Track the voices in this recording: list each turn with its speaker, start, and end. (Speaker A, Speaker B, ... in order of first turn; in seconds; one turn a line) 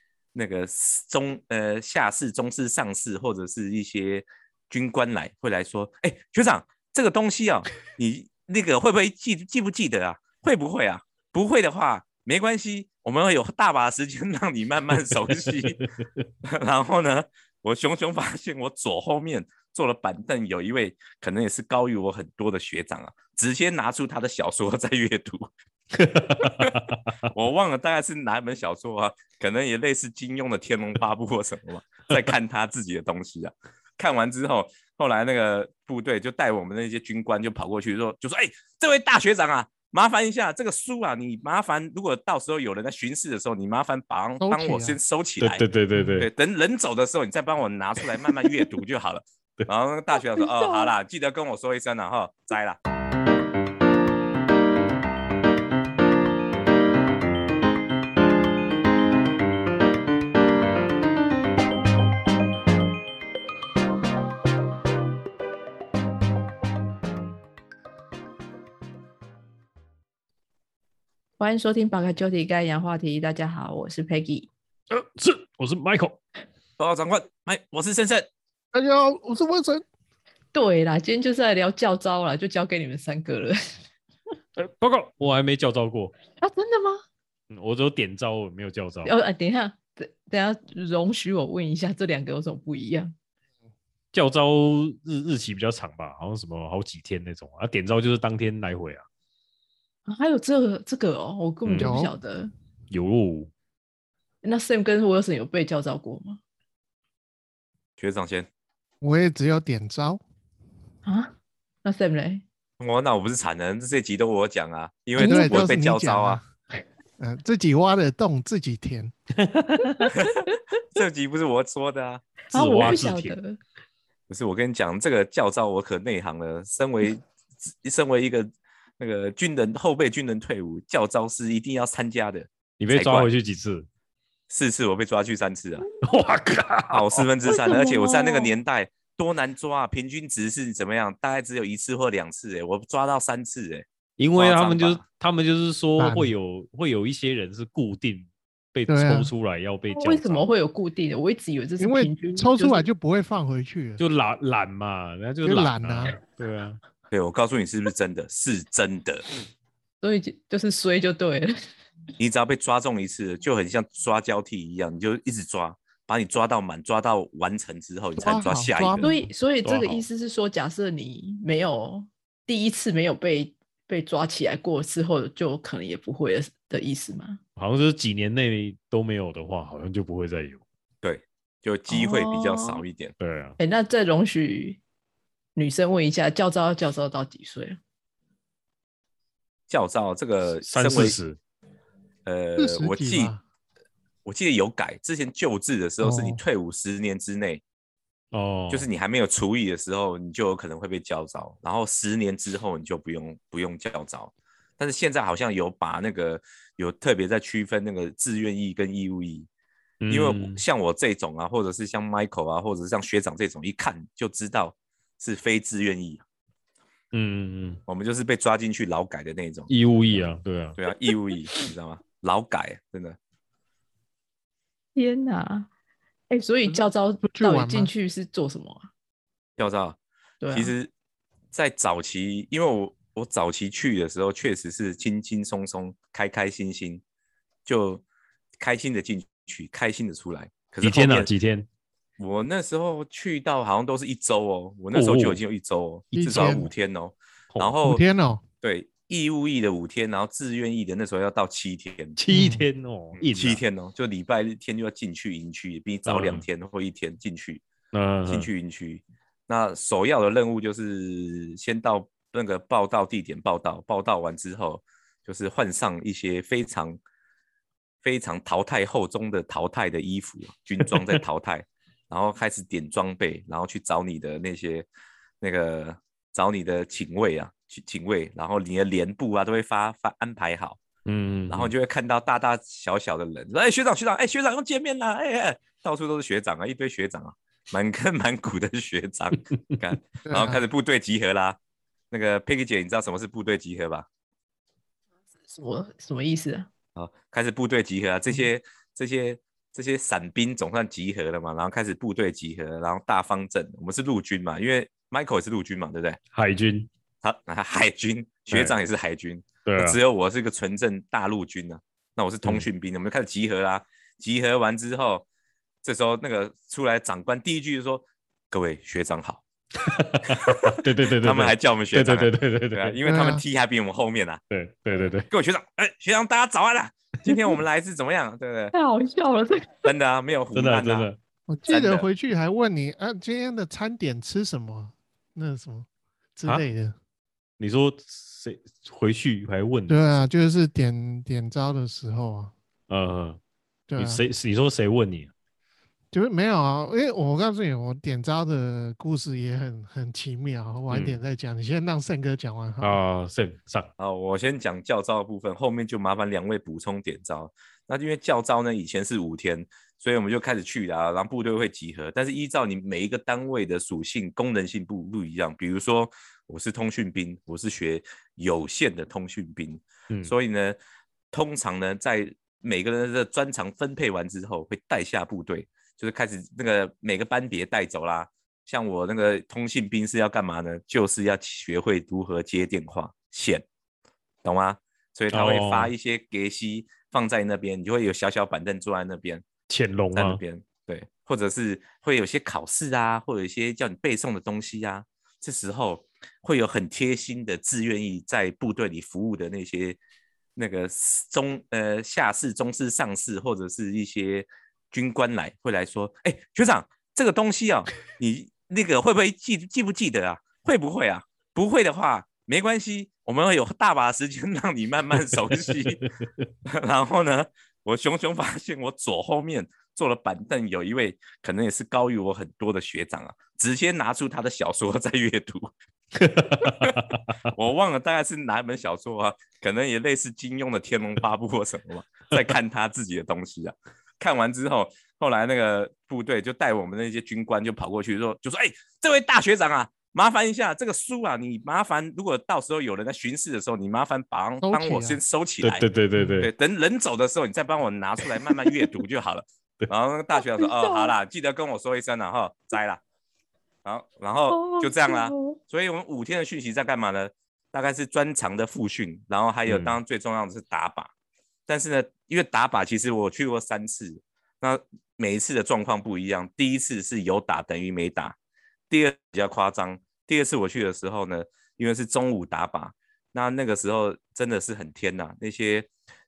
Speaker A: 0.3-15.8
Speaker A: 16.4-25.5
Speaker B: 26.0-27.0
Speaker A: 26.4-45.6
Speaker C: 44.4-45.0
Speaker B: 45.4-46.3
Speaker A: 46.2-52.8
Speaker D: 50.4-50.9
Speaker D: 71.4-74.5
Speaker B: 74.9-76.2
Speaker A: 76.8-78.3
Speaker C: 78.7-79.8
Speaker D: 80.5-83.8
Speaker B: 84.6-86.2
Speaker D: 86.4-87.0
Speaker B: 87.5-89.1
Speaker D: 89.0-93.1
Speaker B: 94.1-99.0
Speaker D: 100.1-102.5
Speaker B: 101.7-102.0
Speaker C: 101.8-102.1
Speaker B: 102.9-103.5
Speaker D: 104.4-106.4
Speaker A: 108.0-108.5
Speaker C: 109.0-110.2
Speaker D: 111.0-112.4
Speaker A: 112.8-116.4
Speaker C: 115.2-116.4
Speaker D: 115.2-115.6
Speaker C: 117.2-119.1
Speaker B: 119.4-120.2
Speaker D: 119.9-120.1
Speaker A: 120.2-122.2
Speaker D: 122.5-123.6
Speaker B: 122.5-123.4
Speaker A: 124.3-127.2
Speaker A: 127.8-133.3
Speaker B: 132.8-133.9
Speaker A: 134.5-135.9
Speaker B: 136.0-137.6
Speaker A: 136.9-145.0
Speaker D: 137.5-138.5
Speaker B: 144.2-150.5
Speaker C: 146.0-146.3
Speaker C: 148.9-149.3
Speaker D: 149.9-152.9
Speaker C: 151.8-154.0
Speaker B: 154.0-156.8
Speaker C: 155.4-156.2
Speaker A: 157.1-159.3
Speaker D: 160.0-161.6
Speaker A: 162.2-169.1
Speaker C: 168.2-169.3
Speaker D: 169.0-177.4
Speaker B: 169.7-170.1
Speaker B: 177.6-180.6
Speaker A: 181.0-183.1
Speaker D: 181.9-182.8
Speaker B: 183.2-183.6
Speaker D: 183.6-184.8
Speaker D: 185.6-187.8
Speaker A: 189.7-191.2
Speaker B: 190.7-191.4
Speaker A: 192.2-193.3
Speaker C: 192.6-193.4
Speaker A: 194.2-197.6
Speaker C: 196.0-196.4
Speaker B: 198.3-198.9
Speaker A: 198.7-209.5
Speaker B: 210.0-210.6
Speaker A: 210.1-216.2
Speaker B: 217.1-217.8
Speaker A: 217.9-219.7
Speaker B: 219.7-220.8
Speaker A: 220.8-223.2
Speaker D: 224.9-225.7
Speaker D: 226.3-228.8
Speaker C: 226.7-227.9
Speaker A: 229.6-230.0
Speaker D: 230.4-230.7
Speaker A: 230.5-230.9
Speaker A: 231.5-237.0
Speaker A: 237.7-238.0
Speaker A: 238.6-241.3
Speaker B: 240.8-241.7
Speaker A: 242.2-248.0
Speaker B: 244.9-245.4
Speaker C: 246.1-246.7
Speaker C: 247.8-248.4
Speaker A: 248.6-252.2
Speaker B: 252.2-253.6
Speaker C: 252.3-252.7
Speaker A: 253.2-257.6
Speaker B: 256.1-256.4
Speaker B: 257.9-258.5
Speaker A: 258.2-267.0
Speaker A: 268.0-274.9
Speaker A: 275.4-280.8
Speaker B: 281.1-281.7
Speaker A: 281.5-291.6
Speaker C: 290.2-290.6
Speaker A: 292.1-294.1
Speaker D: 295.5-296.7
Speaker A: 297.0-306.2
Speaker B: 306.3-306.9
Speaker A: 307.2-315.3
Speaker B: 309.6-310.0
Speaker A: 315.8-319.4
Speaker B: 319.8-323.0
Speaker A: 320.4-324.4
Speaker C: 323.1-323.4
Speaker B: 324.5-325.3
Speaker A: 325.3-328.7
Speaker D: 328.7-329.9
Speaker A: 329.8-331.1
Speaker B: 330.5-331.2
Speaker C: 331.5-336.9
Speaker A: 331.7-332.1
Speaker B: 337.6-340.1
Speaker C: 339.9-342.5
Speaker B: 342.9-343.4
Speaker C: 343.9-344.2
Speaker B: 344.0-345.3
Speaker C: 346.1-353.0
Speaker B: 350.9-351.2
Speaker B: 352.8-353.9
Speaker A: 354.0-370.8
Speaker A: 371.3-383.6
Speaker A: 384.4-389.4
Speaker B: 385.3-385.9
Speaker B: 389.7-390.4
Speaker A: 390.1-400.0
Speaker A: 400.6-416.0
Speaker A: 416.7-425.7
Speaker B: 426.2-427.2
Speaker A: 426.6-445.9
Speaker C: 444.6-445.2
Speaker B: 445.6-446.5
Speaker C: 446.2-446.4
Speaker A: 446.4-453.0
Speaker D: 450.4-451.1
Speaker A: 453.8-461.1
Speaker D: 454.5-455.6
Speaker B: 459.7-460.0
Speaker A: 461.7-468.4
Speaker A: 468.9-475.9